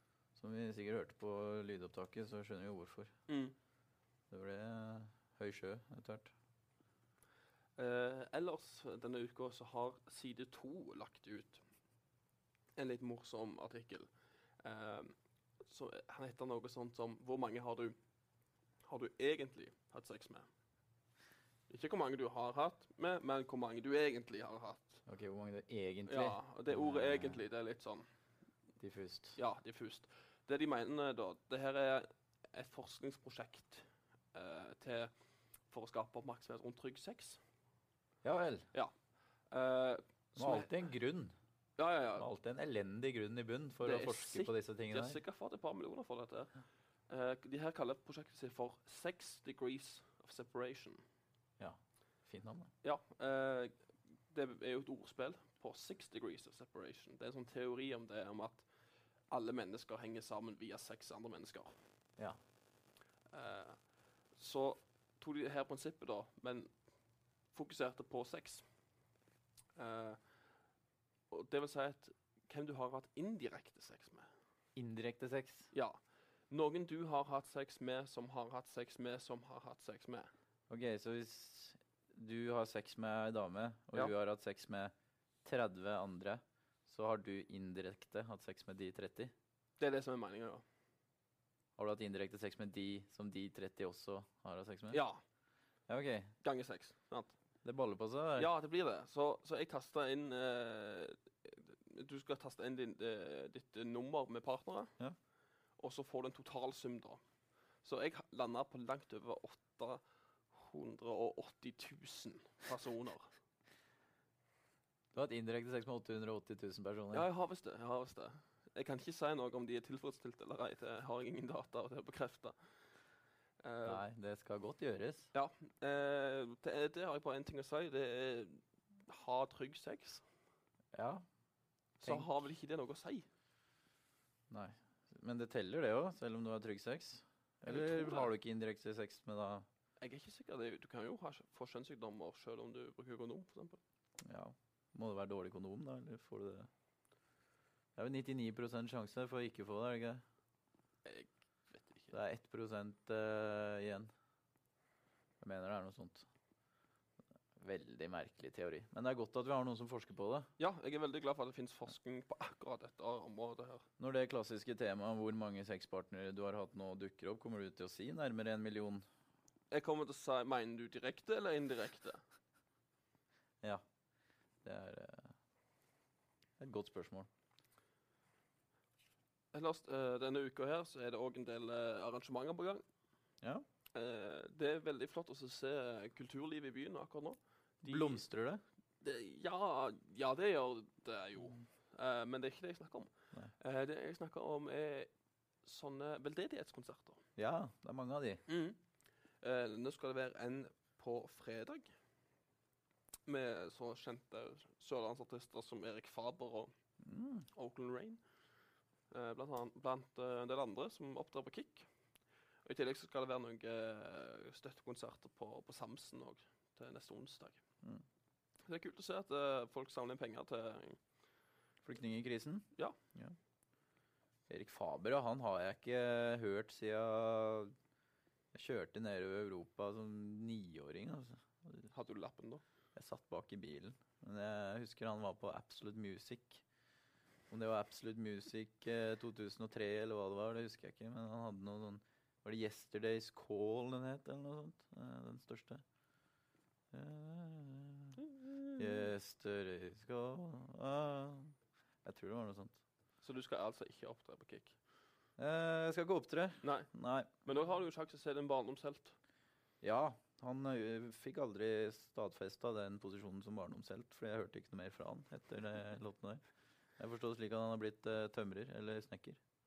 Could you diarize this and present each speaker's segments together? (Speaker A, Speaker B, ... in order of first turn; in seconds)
Speaker A: 0.3-3.1, 4.3-6.3, 25.1-27.4, 28.8-29.4, 38.2-38.6, 40.4-41.3, 42.1-45.2, 51.6-52.7, 74.8-75.7, 80.7-84.9, 85.4-89.3, 91.8-95.0, 95.9-96.3, 97.6-98.5, 115.1-117.3, 123.8-125.3, 130.9-131.2, 132.0-132.3, 134.5-139.7, 144.2-146.7, 147.9-150.2, 152.1-154.1, 155.4-156.3, 157.6-160.5, 164.0-169.1, 174.6-175.3, 176.6-177.3, 187.8-188.6, 197.4-198.4, 207.0-207.4, 221.8-223.3, 224.5-227.7, 228.5-231.9, 232.9-236.6, 237.5-245.8, 246.9-248.2, 248.8-252.8, 255.4-257.3, 259.8-266.4, 267.0-269.4
Speaker B: 3.3-3.5, 7.8-11.6, 12.8-14.1, 14.6-18.0, 18.8-20.5, 21.7-25.0, 26.1-28.1, 29.4-35.1, 35.7-37.4, 39.5-40.7, 41.8-42.3, 43.8-46.5, 47.1-51.0, 52.8-53.7, 54.3-58.6, 59.3-61.7, 63.3-63.8, 64.3-66.7, 67.5-68.6, 69.8-70.2, 71.3-74.3, 75.7-76.0, 76.5-80.3, 89.8-90.6, 94.9-95.2, 96.4-97.3, 98.4-104.9, 105.8-107.2, 107.8-110.0, 110.5-113.3, 117.1-122.5, 123.6-124.0, 125.3-130.2, 132.0-133.2, 137.7-138.3, 140.0-143.8, 151.0-152.1, 160.6-163.8, 169.7-172.2, 179.5-182.8, 183.9-188.2, 189.0-195.1, 195.6-197.2, 198.5-198.8, 199.4-201.9, 203.3-206.7, 207.5-208.2, 209.1-211.9, 212.6-217.6, 218.7-221.0, 231.9-232.6, 248.5-248.9, 253.2-254.8, 256.6-256.9, 257.4-259.1